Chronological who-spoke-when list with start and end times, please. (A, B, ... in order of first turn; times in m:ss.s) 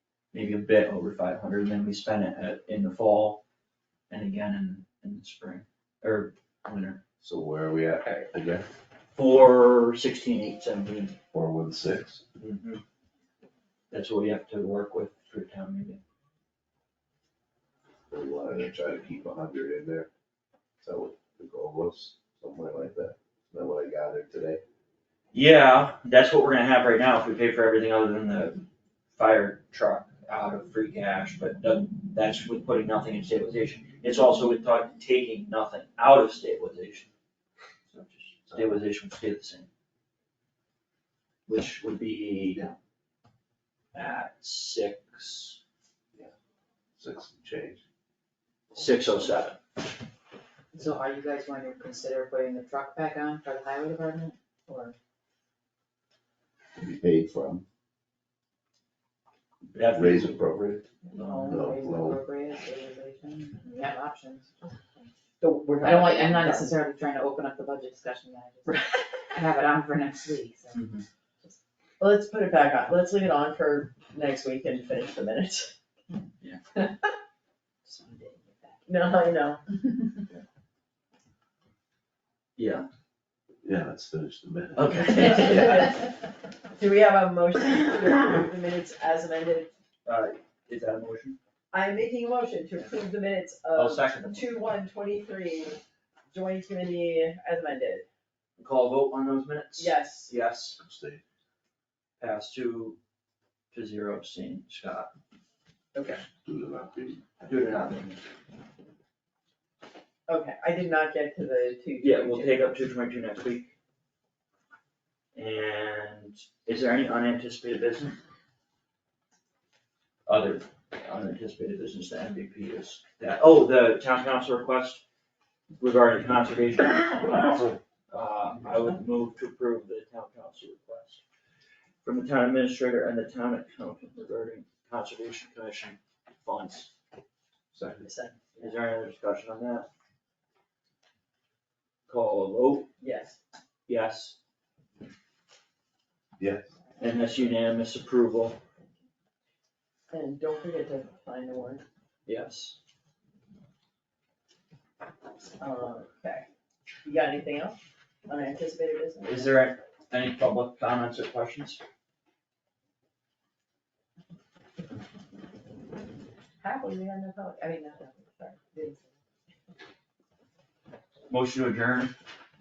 0:00.3-0:03.4 A
0:04.1-0:07.0 A
0:07.2-0:08.7 B
0:09.1-0:11.2 A
0:11.3-0:12.2 B
0:12.4-0:12.8 A
0:13.9-0:16.0 A
0:18.1-0:20.1 B
0:20.8-0:24.6 B
0:25.3-0:28.6 A
0:29.1-0:37.1 A
0:37.9-0:39.7 A
0:41.5-0:42.6 A
0:43.9-0:45.6 A
0:47.0-0:47.8 B
0:48.7-0:49.6 A
0:48.7-0:49.0 B
0:50.7-0:55.0 C
0:56.8-0:57.6 B
0:59.7-1:01.6 A
1:00.0-1:00.8 B
1:01.1-1:05.1 C
1:01.5-1:02.2 B
1:05.4-1:06.7 D
1:05.8-1:10.9 C
1:08.7-1:09.0 D
1:10.7-1:11.0 A
1:12.0-1:15.8 D
1:17.8-1:18.8 C
1:18.9-1:19.6 D
1:22.6-1:22.9 A
1:23.6-1:25.0 B
1:24.8-1:25.9 A
1:25.2-1:26.1 D
1:26.8-1:29.7 D
1:30.0-1:31.4 A
1:31.7-1:35.8 D
1:33.7-1:34.5 A
1:36.3-1:38.1 D
1:38.6-1:40.8 A
1:39.8-1:40.3 D
1:40.8-1:41.2 B
1:42.2-1:43.0 A
1:43.7-1:45.1 A
1:45.9-1:46.2 D
1:46.4-1:47.5 B
1:47.4-1:48.2 A
1:50.3-1:52.8 D
1:52.0-1:53.7 A
1:55.4-1:58.2 A
2:00.3-2:05.0 A
2:05.8-2:11.2 A
2:12.0-2:16.9 A
2:17.7-2:18.1 B
2:18.0-2:18.8 D
2:18.6-2:19.9 A
2:22.1-2:22.9 A
2:23.0-2:23.4 D
2:23.9-2:24.4 A
2:26.4-2:26.7 B
2:27.0-2:28.6 A
2:30.1-2:31.8 D
2:32.3-2:32.8 A
2:35.6-2:36.5 D
2:37.0-2:39.5 D
2:39.2-2:41.8 A
2:46.6-2:49.0 D
2:51.3-2:52.1 A